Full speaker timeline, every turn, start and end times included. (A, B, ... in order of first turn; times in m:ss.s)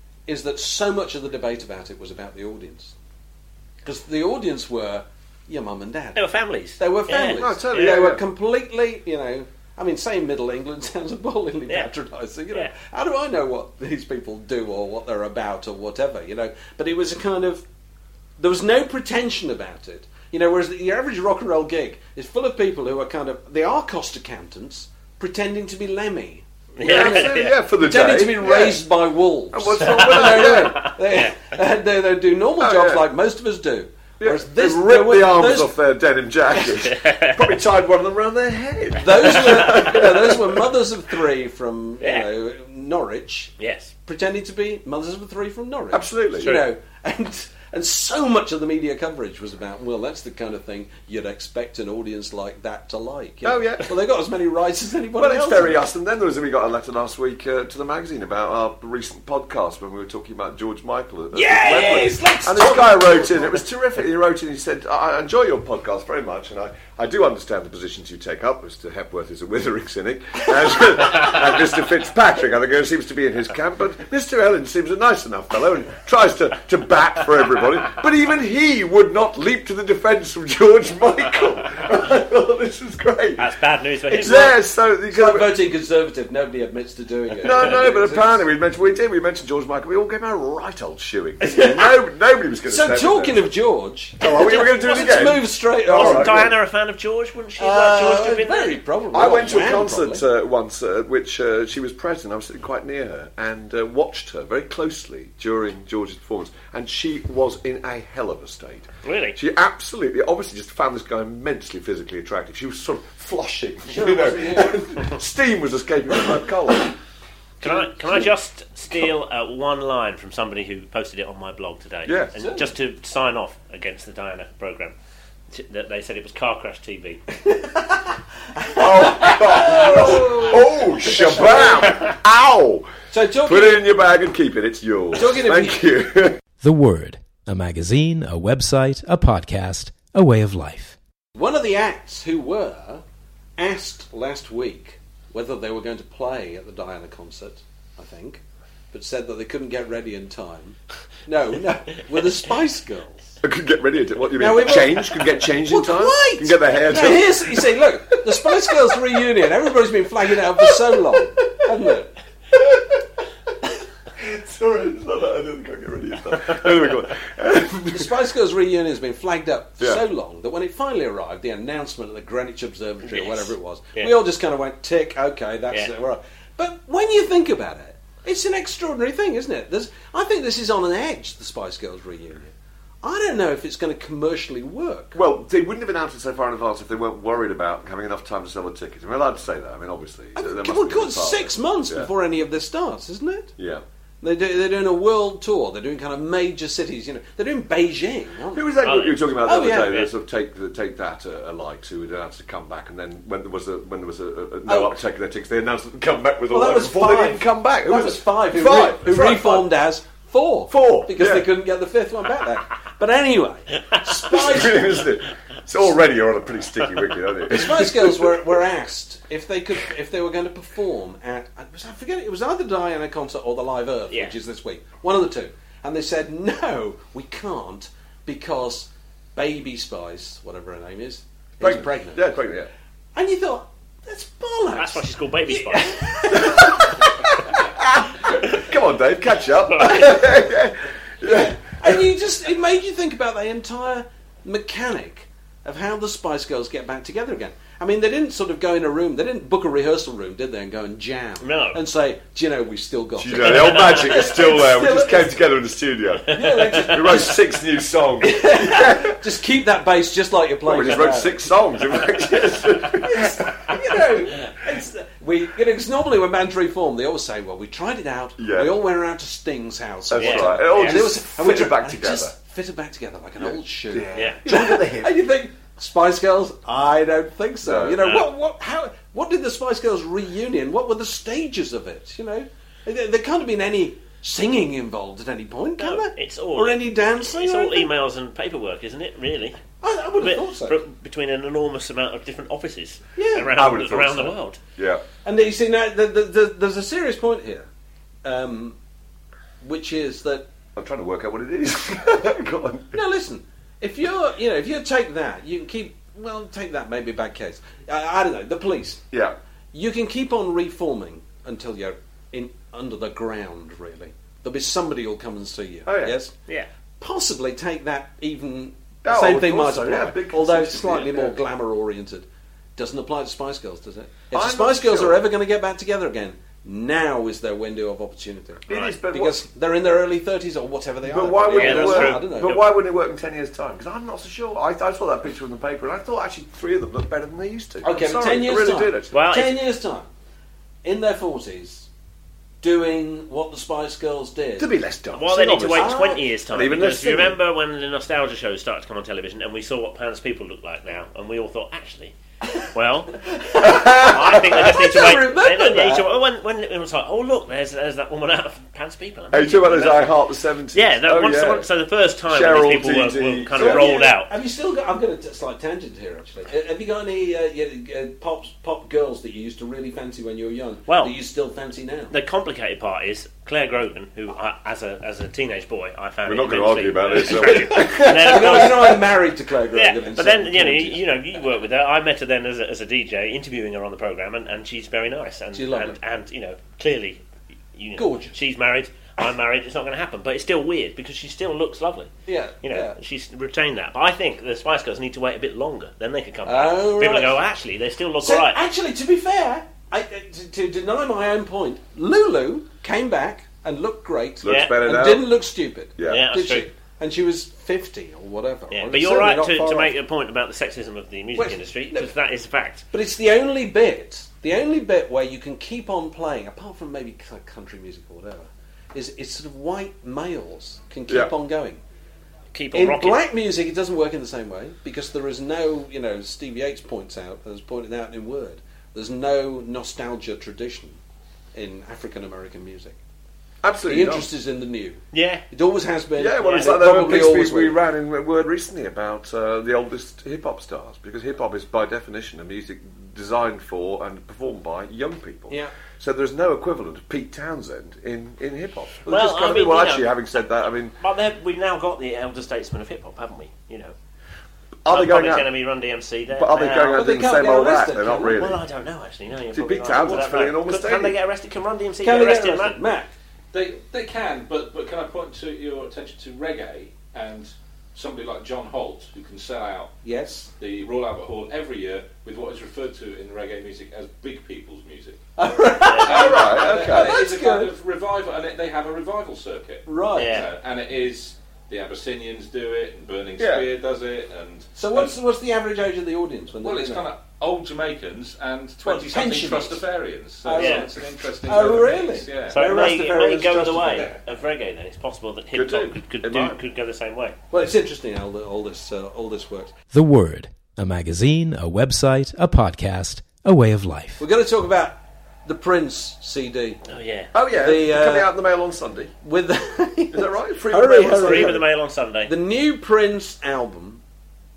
0:00.3-0:03.0 A
0:03.8-0:06.2 A
0:06.2-0:08.0 B
0:06.8-0:17.6 A
0:07.2-0:08.2 C
0:18.4-0:35.8 A
0:26.8-0:27.6 B
0:26.8-0:28.8 C
0:29.5-0:30.9 C
0:30.0-0:31.3 B
0:32.6-0:33.1 C
0:34.2-0:40.6 C
0:36.8-0:37.4 B
0:39.0-0:43.5 A
0:39.7-0:40.0 B
0:42.0-0:42.3 B
0:43.6-0:43.9 B
0:44.1-0:55.8 A
0:45.9-0:46.6 C
0:53.4-0:53.9 C
0:55.2-1:23.5 C
1:01.3-1:03.6 A
1:23.4-1:24.6 B
1:24.1-1:25.6 C
1:25.1-1:28.5 A
1:27.4-1:33.5 C
1:31.4-1:31.9 A
1:32.7-1:36.5 A
1:34.2-1:36.5 C
1:34.3-1:38.8 B
1:37.6-1:40.2 A
1:39.1-1:57.0 C
1:49.0-1:49.4 B
1:53.9-1:54.8 A
1:57.6-2:05.0 B
2:02.1-2:02.3 C
2:02.4-2:02.7 A
2:05.5-2:07.2 B
2:07.4-2:08.0 A
2:08.6-2:12.0 A
2:08.8-2:12.9 C
2:13.1-2:13.9 A
2:13.4-2:16.4 C
2:15.1-2:15.8 A
2:16.6-2:21.0 D
2:21.4-2:23.0 A
2:23.6-2:33.3 A
2:33.4-2:37.8 C
2:34.4-2:42.1 A
2:42.5-2:43.0 C
2:44.2-2:48.1 C
2:47.9-3:02.5 A
2:53.1-2:54.1 B
3:03.0-3:05.2 A
3:05.2-3:12.1 C
3:10.4-3:13.5 A
3:13.6-3:13.8 C
3:14.2-3:18.7 A
3:18.5-3:29.8 C
3:18.8-3:20.1 B
3:19.4-3:20.0 A
3:24.7-3:25.0 A
3:26.5-3:35.0 A
3:30.7-3:31.5 C
3:34.2-3:38.4 C
3:37.5-3:52.4 A
3:51.6-3:52.7 C
3:53.2-3:57.3 A
3:54.8-3:56.0 B
3:56.4-4:02.0 C
4:01.3-4:15.4 A
4:11.4-4:11.8 B
4:13.2-4:19.2 C
4:13.4-4:14.2 B
4:16.3-4:17.4 A
4:16.3-4:17.2 B
4:18.2-4:21.5 A
4:20.6-4:23.8 C
4:23.0-4:47.9 A
4:28.4-4:28.8 C
4:30.1-4:32.3 C
4:30.2-4:31.0 B
4:33.4-4:35.1 C
4:34.2-4:34.4 B
4:37.6-4:38.2 C
4:45.8-4:49.6 B
4:49.8-4:50.8 A
4:50.2-4:54.6 B
4:53.2-4:53.5 A
4:53.5-4:55.0 C
4:55.2-4:57.7 A
4:58.2-4:58.8 A
4:59.6-5:00.5 A
5:00.8-5:03.0 C
5:02.9-5:09.0 A
5:09.7-5:16.3 A
5:15.9-5:16.2 C
5:17.0-5:32.6 A
5:19.0-5:21.4 C
5:24.3-5:25.2 C
5:28.7-5:29.4 C
5:28.7-5:29.0 B
5:31.0-5:39.2 C
5:31.5-5:32.7 B
5:37.8-5:40.1 A
5:39.1-5:39.6 B
5:40.8-5:41.9 A
5:42.6-5:44.7 A
5:44.6-5:47.4 C
5:45.1-5:52.2 B
5:45.7-5:46.2 A
5:52.7-5:53.3 B
5:53.2-5:56.1 A
5:53.6-5:54.6 C
5:54.0-6:00.2 B
5:59.3-6:01.7 C
6:00.7-6:04.3 B
6:02.3-6:04.0 C
6:03.6-6:12.1 A
6:10.9-6:11.2 B
6:12.1-6:19.0 B
6:16.2-6:18.9 C
6:17.4-6:21.0 A
6:19.7-6:27.2 B
6:25.5-6:26.0 A
6:27.8-6:32.1 B
6:28.0-6:28.4 A
6:32.3-6:33.0 A
6:32.6-6:38.6 B
6:36.4-6:37.4 A
6:38.2-6:49.9 A
6:44.4-6:45.3 C
6:44.5-6:44.8 B
6:46.0-6:46.3 C
6:46.0-6:46.7 B
6:48.7-6:52.9 B
6:51.4-6:52.1 A
6:52.9-7:01.8 A
7:01.1-7:01.3 C
7:02.5-7:03.2 B
7:02.7-7:11.0 A
7:11.5-7:13.0 A
7:13.6-7:14.3 C
7:13.9-7:17.8 A
7:15.1-7:15.4 B
7:16.2-7:31.0 C
7:16.4-7:16.7 B
7:29.1-7:30.1 B
7:31.0-7:33.9 B
7:34.8-7:35.5 C
7:34.9-7:37.1 B
7:36.3-7:38.6 C
7:36.9-7:38.4 A
7:38.3-7:42.8 B
7:39.5-7:41.2 C
7:42.0-7:43.1 A
7:43.5-7:50.0 E
7:50.0-7:50.5 A
7:50.6-7:55.2 E
7:55.4-7:57.7 A
7:55.9-7:56.2 B
7:56.1-8:05.2 E
7:56.1-7:57.2 C
7:59.9-8:00.5 A
8:00.2-8:00.5 B
8:03.4-8:03.7 C
8:04.8-8:07.1 A
8:06.6-8:12.6 E
8:08.8-8:09.8 A
8:10.4-8:14.2 A
8:10.6-8:10.9 B
8:12.5-8:17.4 B
8:15.5-8:16.6 C
8:17.5-8:19.7 A
8:19.9-8:24.2 D
8:24.2-8:26.8 A
8:26.9-8:27.3 B
8:27.3-8:29.1 C
8:27.5-8:28.4 A
8:29.2-8:31.7 A
8:30.1-8:31.6 C
8:31.1-8:32.3 B
8:32.3-8:34.0 A